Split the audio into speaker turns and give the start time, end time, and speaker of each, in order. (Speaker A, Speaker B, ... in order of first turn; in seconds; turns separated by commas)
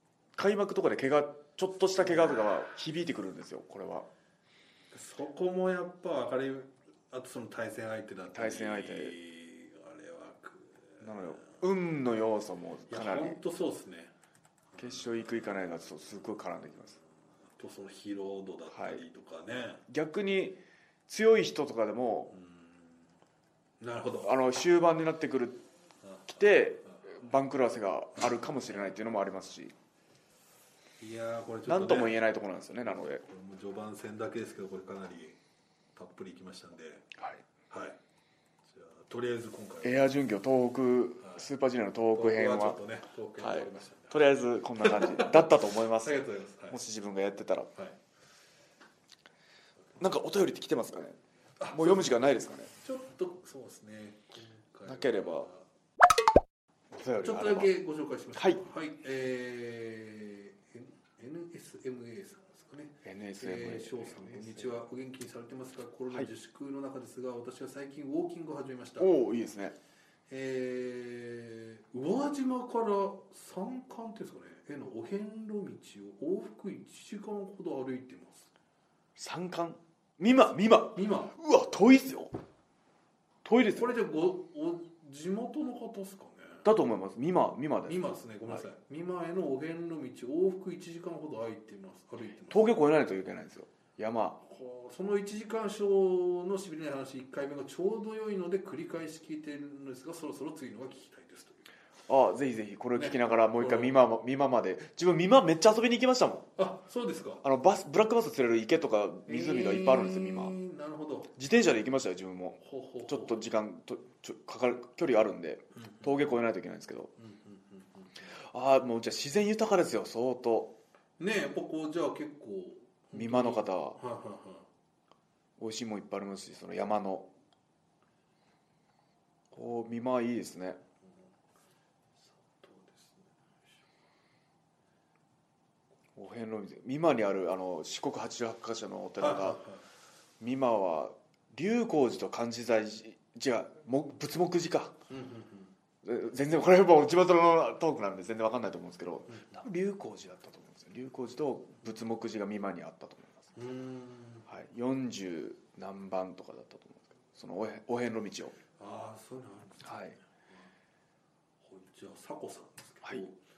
Speaker A: 0.3-4.1, Speaker B: 4.9-11.5, Speaker A: 8.3-9.1, Speaker A: 11.0-13.4, Speaker B: 12.9-14.1, Speaker B: 14.7-15.2, Speaker A: 14.8-17.0, Speaker B: 17.6-19.8, Speaker A: 18.7-19.0, Speaker A: 19.9-22.3, Speaker B: 22.3-22.9, Speaker B: 23.8-24.3, Speaker A: 24.2-25.6, Speaker B: 26.0-27.0, Speaker A: 26.3-29.7, Speaker B: 31.0-32.2, Speaker A: 31.7-33.2, Speaker B: 32.9-35.4, Speaker B: 36.0-37.1, Speaker A: 37.1-37.4, Speaker B: 37.7-38.0, Speaker B: 38.7-40.1, Speaker A: 39.8-42.8, Speaker B: 42.1-46.8, Speaker A: 43.4-47.7, Speaker A: 50.0-51.2, Speaker B: 51.6-52.1, Speaker A: 51.7-52.7, Speaker B: 52.8-55.6, Speaker A: 54.9-55.5, Speaker A: 56.9-57.7, Speaker B: 57.2-69.1, Speaker A: 58.3-58.6, Speaker A: 63.0-64.8, Speaker A: 69.0-69.8, Speaker B: 70.3-78.5, Speaker A: 79.2-82.3, Speaker B: 81.0-81.3, Speaker A: 83.4-83.9, Speaker B: 83.7-86.6, Speaker A: 86.6-88.6, Speaker B: 87.8-92.8, Speaker A: 92.5-94.4, Speaker B: 94.4-101.7, Speaker A: 102.1-106.5, Speaker B: 103.0-104.0, Speaker B: 106.6-107.4, Speaker A: 107.4-110.6, Speaker B: 109.3-111.3, Speaker A: 111.3-117.1, Speaker B: 112.6-113.4, Speaker B: 115.8-116.1, Speaker B: 117.2-118.1, Speaker A: 118.4-120.8, Speaker B: 121.2-124.7, Speaker A: 123.1-124.0, Speaker A: 125.6-127.3, Speaker A: 129.5-130.8, Speaker B: 132.2-133.3, Speaker A: 136.2-139.6, Speaker B: 139.2-139.8, Speaker A: 140.4-144.9, Speaker B: 145.1-145.7, Speaker A: 146.0-153.5, Speaker B: 149.3-149.6, Speaker B: 153.6-154.4, Speaker A: 154.5-158.6, Speaker B: 158.8-160.0, Speaker A: 159.8-160.2, Speaker B: 161.6-163.4